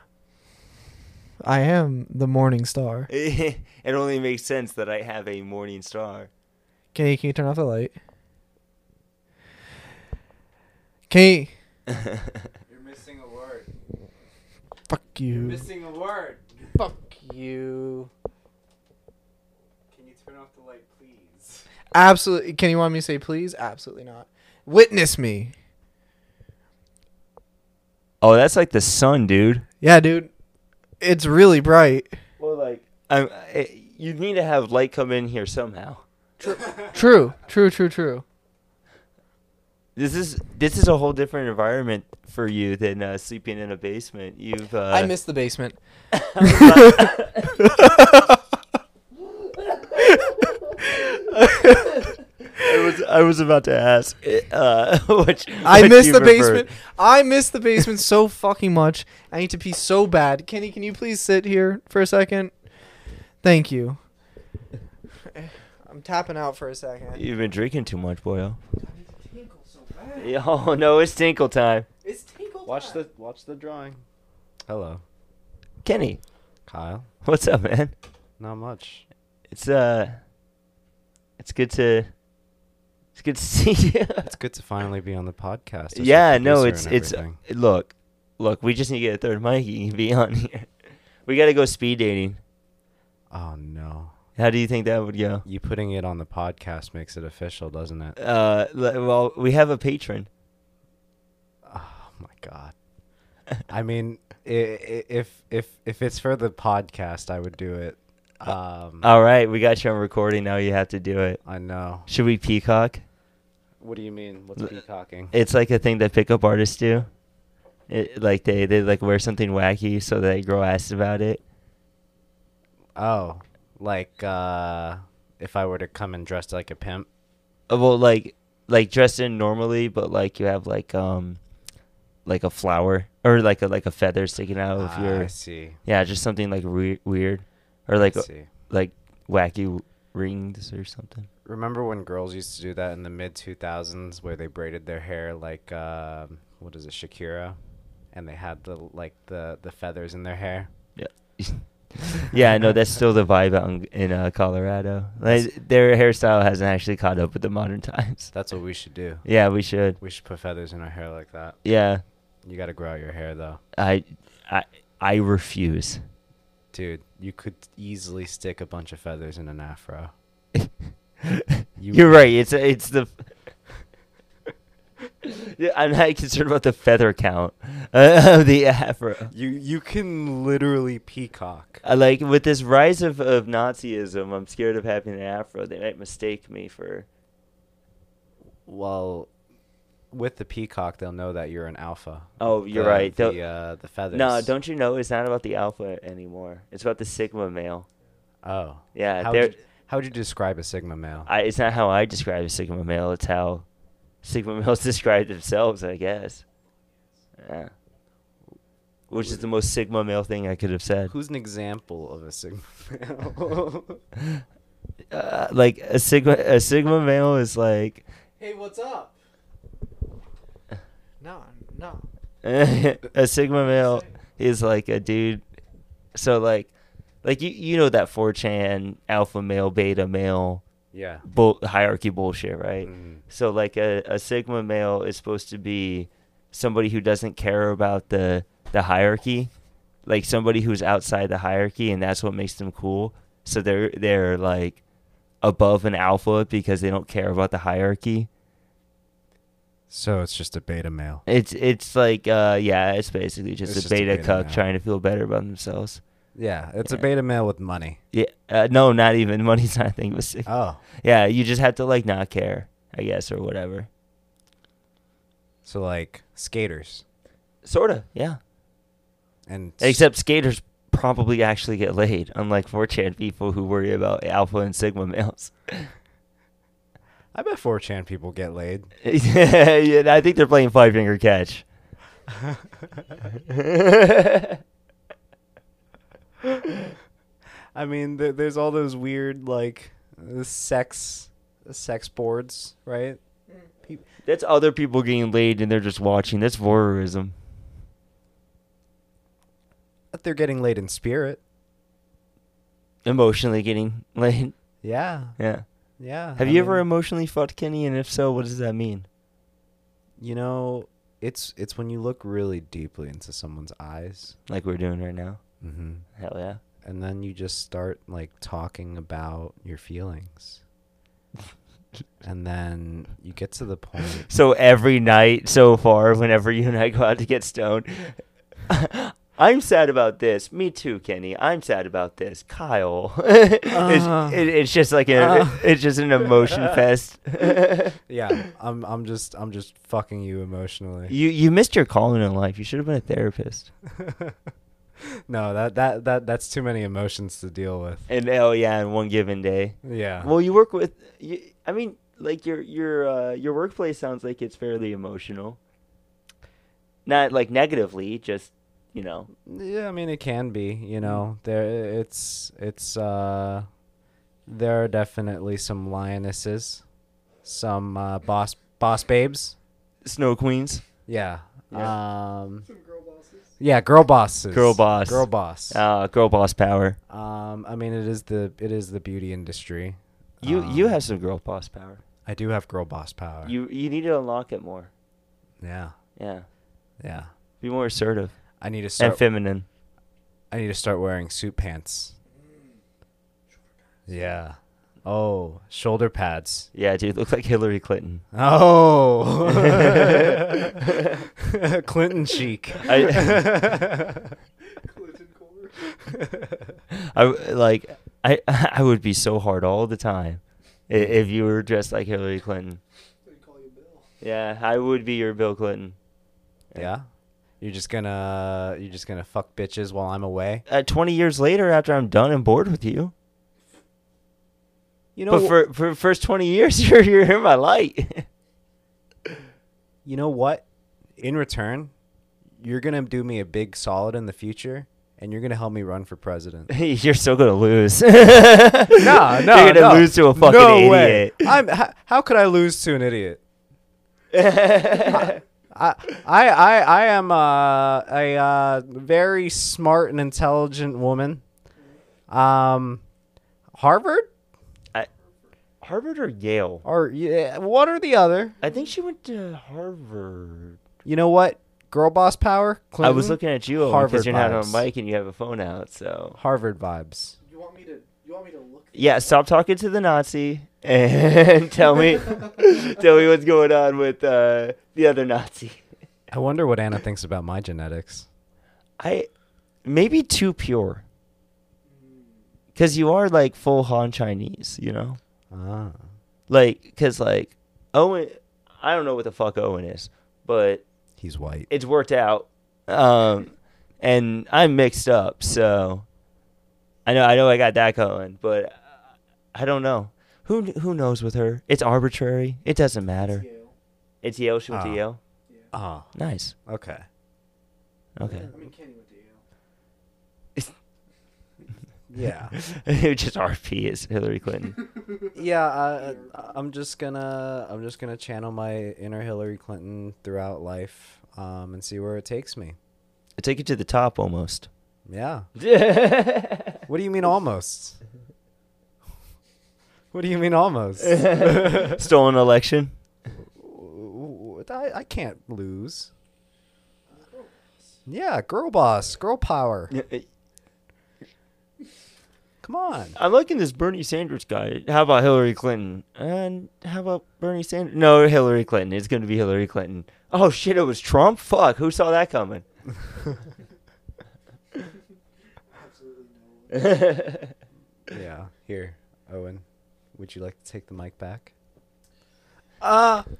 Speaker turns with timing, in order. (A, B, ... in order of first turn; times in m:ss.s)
0:01.4-0:03.1 A
0:03.1-0:06.3 B
0:06.9-0:08.0 A
0:11.1-0:11.5 A
0:12.7-0:13.7 C
0:14.9-0:15.6 A
0:15.3-0:16.8 C
0:16.8-0:18.1 A
0:19.9-0:21.7 C
0:21.9-0:25.5 A
0:28.2-0:29.7 B
0:29.8-0:30.3 A
0:31.0-0:32.1 A
0:32.4-0:36.0 B
0:36.4-0:38.2 A
0:40.0-0:45.1 B
0:44.9-0:45.8 A
0:46.1-0:47.6 B
0:46.4-0:47.1 A
0:47.6-0:48.4 A
0:49.7-0:50.2 B
0:50.0-0:52.1 A
0:52.6-0:56.7 B
0:55.6-1:02.5 A
1:03.4-1:04.0 A
1:05.3-1:07.2 A
1:07.1-1:08.6 B
1:08.8-1:10.3 A
1:10.2-1:11.9 B
1:12.0-1:13.0 A
1:12.7-1:14.0 C
1:14.7-1:15.0 C
1:15.8-1:16.2 B
1:16.7-1:17.1 C
1:17.2-1:17.9 B
1:18.4-1:19.1 C
1:19.5-1:20.2 B
1:21.4-1:22.1 B
1:23.2-1:24.3 B
1:24.2-1:27.4 C
1:25.9-1:30.7 B
1:31.2-1:32.4 B
1:33.3-1:34.1 C
1:34.4-1:35.4 B
1:35.4-1:38.2 C
1:38.2-1:40.3 B
1:41.6-1:42.7 C
1:43.7-1:49.1 C
1:49.0-1:51.4 B
1:51.4-1:52.1 C
1:52.1-1:53.0 B
1:53.8-1:55.3 C
1:55.3-1:57.1 B
1:57.9-2:01.4 B
2:03.0-2:07.1 C
2:07.7-2:11.4 B
2:12.2-2:15.3 B
2:14.8-2:15.8 C
2:15.8-2:21.3 B
2:18.0-2:18.5 C
2:21.4-2:27.6 C
2:28.1-2:30.7 C
2:31.0-2:38.3 B
2:38.3-2:39.3 C
2:39.2-2:40.0 B
2:40.0-2:41.6 C
2:41.6-2:42.0 B
2:42.4-2:43.6 C
2:43.8-2:46.0 B
2:46.7-2:50.1 C
2:51.2-2:53.3 B
2:51.8-2:52.1 C
2:55.2-2:59.3 B
2:59.3-3:01.8 C
3:01.8-3:07.1 B
3:08.7-3:09.3 C
3:10.1-3:14.5 C
3:12.4-3:13.4 B
3:14.1-3:17.9 B
3:18.4-3:21.3 C
3:19.0-3:19.6 B
3:21.3-3:23.7 B
3:24.2-3:26.4 B
3:27.4-3:27.7 B
3:29.1-3:31.1 B
3:29.1-3:29.4 C
3:31.1-3:34.0 C
3:35.1-3:38.0 B
3:38.4-3:39.2 A
3:41.2-3:42.0 A
3:42.4-3:45.4 B
3:46.2-3:46.7 B
3:47.2-3:50.6 B
3:50.9-3:51.2 C
3:51.2-3:59.5 B
3:52.8-3:53.2 C
4:00.0-4:04.8 B
4:05.4-4:08.3 B
4:09.9-4:11.2 C
4:11.3-4:16.0 B
4:13.6-4:14.6 C
4:16.4-4:18.0 C
4:18.1-4:23.9 B
4:20.5-4:20.8 C
4:25.6-4:27.0 C
4:27.6-4:28.4 B
4:29.5-4:30.0 C
4:29.8-4:35.9 B
4:37.3-4:38.9 C
4:39.0-4:41.6 B
4:43.3-4:44.6 B
4:47.8-4:53.2 C
4:54.3-4:57.4 B
5:00.1-5:01.4 C
5:03.0-5:04.5 B
5:04.8-5:05.4 C
5:05.4-5:05.6 B
5:06.0-5:06.8 C
5:06.4-5:09.1 B
5:10.2-5:14.4 C
5:14.5-5:15.4 B
5:15.6-5:16.1 C
5:16.2-5:16.6 B
5:16.8-5:20.6 C
5:22.2-5:24.3 C
5:24.3-5:38.0 B
5:33.7-5:34.4 C
5:35.1-5:35.6 C
5:36.4-5:36.8 C
5:38.1-5:41.2 C
5:41.1-5:43.7 B
5:43.9-5:44.4 C
5:45.2-5:48.1 C
5:48.1-5:55.6 B
5:49.8-5:50.3 C
5:57.1-5:59.3 B
5:59.4-6:03.7 C
6:04.5-6:06.8 C
6:07.4-6:09.6 C
6:10.0-6:10.8 B
6:11.1-6:12.7 C
6:12.9-6:13.4 A
6:13.6-6:15.8 C
6:14.5-6:17.0 B
6:17.1-6:21.0 C
6:20.4-6:22.0 B
6:22.3-6:23.6 C
6:23.4-6:24.9 B
6:25.6-6:26.0 C
6:26.2-6:26.5 B
6:27.0-6:27.3 C
6:27.6-6:28.3 B
6:28.6-6:29.2 C
6:29.0-6:29.7 B
6:30.5-6:32.2 C
6:34.1-6:36.7 C
6:36.7-6:38.2 B
6:38.3-6:44.4 C
6:39.4-6:41.2 B
6:42.8-6:43.5 B
6:44.8-6:45.8 A
6:46.0-6:46.6 C
6:46.9-6:52.8 B
6:53.3-6:54.0 A
6:54.2-6:56.0 B
6:56.8-6:57.0 C
6:57.6-7:00.6 C
7:00.7-7:03.1 B
7:05.2-7:05.6 C
7:05.3-7:08.3 B
7:10.0-7:10.6 C
7:11.2-7:11.9 C
7:12.6-7:16.7 C
7:16.7-7:21.6 B
7:19.0-7:23.4 C
7:24.3-7:25.4 B
7:25.1-7:31.4 C
7:32.3-7:33.0 C
7:33.8-7:34.3 C
7:35.8-7:36.8 B
7:36.8-7:38.6 C
7:38.6-7:40.8 B
7:41.0-7:44.8 C
7:43.0-7:46.4 B
7:46.4-7:47.4 C
7:47.5-7:49.2 A
7:49.0-7:55.8 B
7:56.3-7:58.3 C
7:59.0-7:59.3 B
7:59.8-8:01.0 B
8:02.8-8:05.2 B
8:05.5-8:06.0 C
8:06.5-8:10.8 B
8:11.2-8:11.7 C
8:11.7-8:16.0 B
8:17.1-8:18.8 B
8:19.5-8:23.4 B
8:23.4-8:23.7 A
8:24.2-8:25.2 B
8:24.7-8:25.0 C
8:25.7-8:26.1 C
8:26.2-8:26.6 B
8:26.7-8:27.0 C
8:28.2-8:28.5 B
8:28.2-8:28.7 C
8:28.5-8:29.4 A
8:32.1-8:32.6 C
8:32.5-8:34.8 B
8:35.3-8:42.8 C
8:43.4-8:44.7 B
8:45.1-8:45.5 C
8:45.6-8:46.8 B
8:46.9-8:48.0 C
8:50.1-8:52.0 C
8:51.0-8:52.9 B
8:53.6-8:56.1 C
8:58.1-8:59.9 C
8:59.9-9:00.3 B
9:02.6-9:03.2 C
9:03.2-9:12.6 B
9:16.7-9:17.5 B
9:18.1-9:19.6 C
9:20.1-9:21.5 C
9:22.8-9:23.2 A